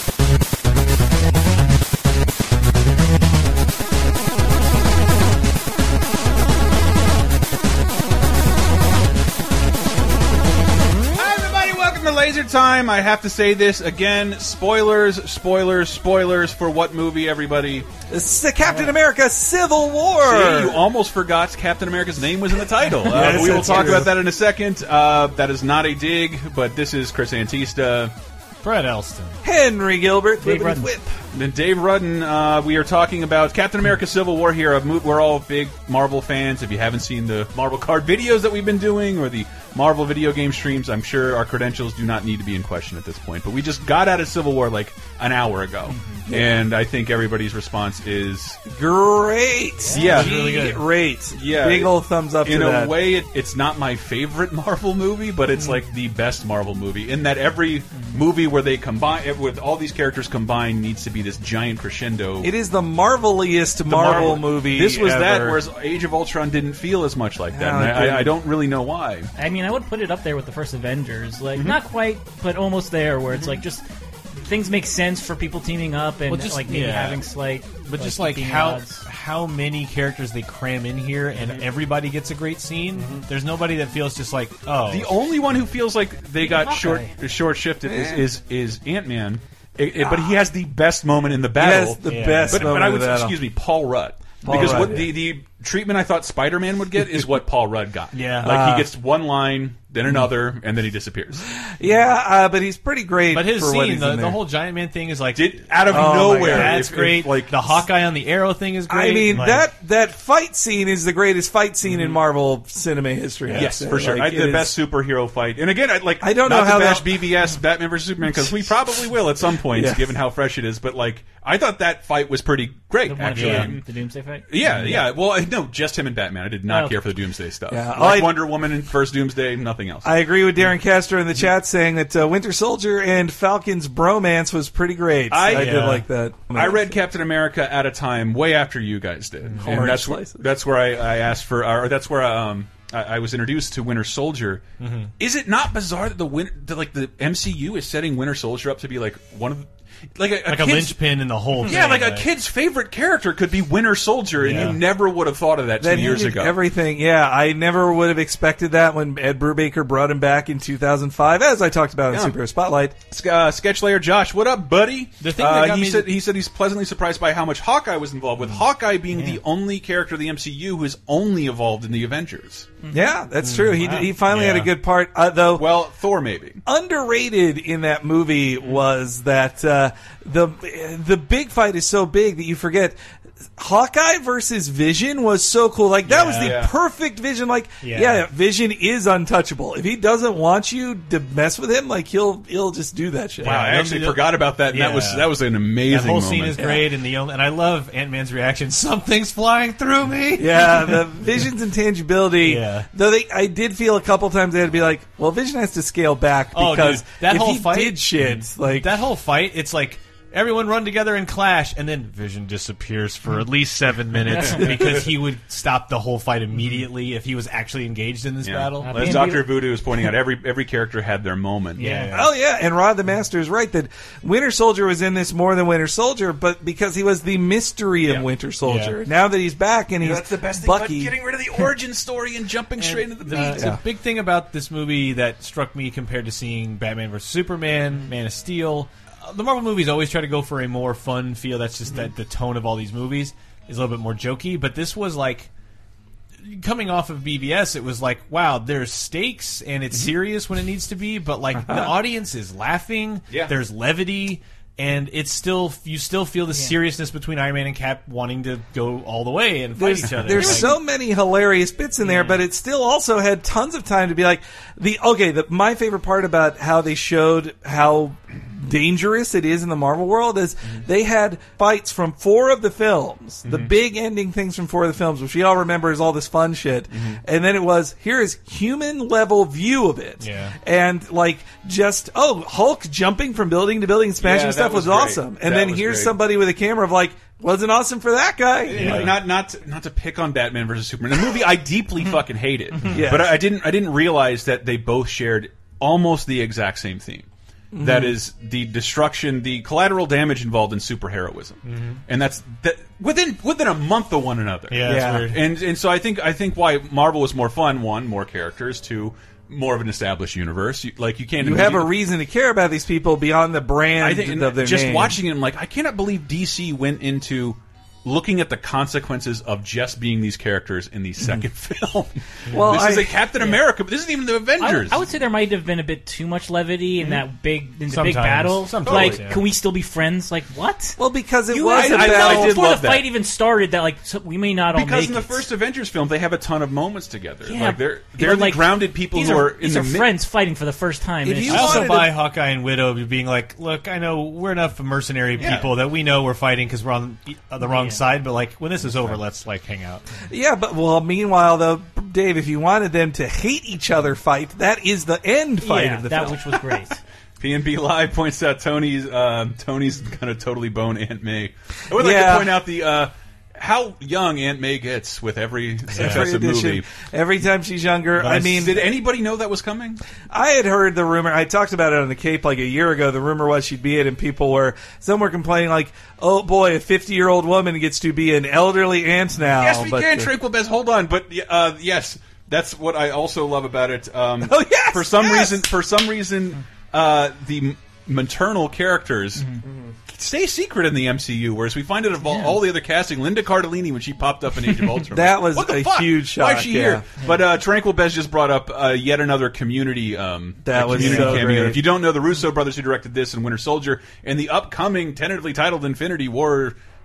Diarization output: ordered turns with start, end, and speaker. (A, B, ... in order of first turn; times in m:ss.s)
0:11.1-0:17.9 A
0:18.1-0:20.8 B
0:20.2-0:28.1 A
0:23.0-0:24.1 B
0:23.0-0:24.1 C
0:28.6-0:29.4 C
0:29.4-0:31.1 B
0:30.4-0:30.9 D
0:31.3-0:48.6 A
0:46.3-0:46.7 B
0:48.6-0:53.0 B
0:49.9-0:50.3 A
0:49.9-0:50.8 C
0:51.3-0:51.9 A
0:52.4-1:02.5 A
1:02.4-1:05.6 B
1:03.9-1:09.3 A
1:07.5-1:08.4 B
1:09.4-1:13.8 D
1:14.4-1:19.0 D
1:16.3-1:17.2 C
1:17.8-1:25.2 C
1:21.4-1:21.6 A
1:22.9-1:23.2 B
1:24.9-1:41.4 A
1:26.4-1:27.1 D
1:27.8-1:28.2 B
1:30.0-1:30.4 B
1:31.5-1:33.4 B
1:32.0-1:32.8 C
1:34.4-1:35.1 B
1:34.5-1:35.1 C
1:38.1-1:38.5 C
1:38.4-1:38.9 B
1:41.6-1:44.4 B
1:43.3-1:49.7 C
1:45.3-1:47.8 A
1:45.9-1:46.8 B
1:48.9-1:54.7 B
1:53.5-1:53.7 C
1:53.5-2:03.8 A
1:56.2-1:57.4 B
1:59.6-2:00.2 B
2:03.1-2:05.0 D
2:03.3-2:03.7 C
2:04.5-2:10.1 A
2:06.7-2:07.0 D
2:07.7-2:08.5 B
2:10.0-2:17.0 B
2:15.3-2:15.9 A
2:15.5-2:16.0 C
2:16.5-2:24.6 A
2:19.4-2:19.8 C
2:19.6-2:20.4 B
2:24.8-2:25.1 C
2:25.2-2:31.0 A
2:30.4-2:32.3 C
2:31.6-2:36.6 A
2:34.4-2:34.8 C
2:35.8-2:42.9 B
2:35.9-2:36.2 C
2:42.1-2:42.4 A
2:43.1-2:52.7 A
2:45.2-2:46.1 C
2:52.9-2:55.7 B
2:53.4-2:54.7 C
2:55.5-2:56.6 A
2:56.6-3:03.0 B
3:03.6-3:13.6 B
3:06.1-3:06.6 C
3:06.4-3:06.7 A
3:07.8-3:08.2 C
3:13.4-3:21.4 C
3:13.4-3:16.6 A
3:16.6-3:16.9 B
3:20.3-3:29.0 B
3:22.4-3:22.8 C
3:26.5-3:39.3 C
3:38.4-3:42.0 A
3:38.8-3:39.6 D
3:41.8-3:42.3 C
3:41.8-3:42.0 D
3:42.1-3:51.2 B
3:48.6-3:49.0 C
3:50.0-3:53.7 A
3:52.8-4:05.5 C
3:53.5-3:53.8 B
4:06.4-4:20.8 C
4:13.3-4:13.5 A
4:16.5-4:16.7 D
4:19.7-4:49.1 B
4:22.0-4:22.4 C
4:33.4-4:33.7 A
4:36.9-4:37.2 A
4:40.2-4:40.5 C
4:44.2-4:46.1 A
4:48.7-4:57.3 A
4:48.7-4:49.2 C
4:52.8-4:53.4 B
4:57.7-4:58.2 B
4:57.8-5:11.9 A
5:01.6-5:02.0 C
5:04.7-5:05.4 C
5:04.8-5:05.4 B
5:11.4-5:15.2 B
5:14.0-5:25.0 A
5:22.5-5:22.7 C
5:22.5-5:23.2 B
5:24.6-5:31.0 D
5:27.9-5:29.4 C
5:28.8-5:29.2 A
5:31.0-5:32.8 B
5:31.5-5:35.5 D
5:31.7-5:33.0 A
5:34.7-5:40.1 A
5:37.4-5:41.9 D
5:41.2-5:42.2 B
5:41.5-5:50.0 C
5:45.4-5:45.7 A
5:47.6-5:48.0 D
5:50.3-5:56.8 B
5:55.6-5:57.0 D
5:57.4-6:06.8 A
6:01.9-6:02.6 B
6:05.9-6:08.8 B
6:05.9-6:06.2 C
6:08.2-6:08.7 C
6:08.2-6:10.0 A
6:10.3-6:20.3 B
6:19.5-6:29.5 A
6:24.4-6:25.7 B
6:30.1-6:46.8 A
6:35.1-6:37.0 B
6:40.6-6:41.8 B
6:40.9-6:41.6 C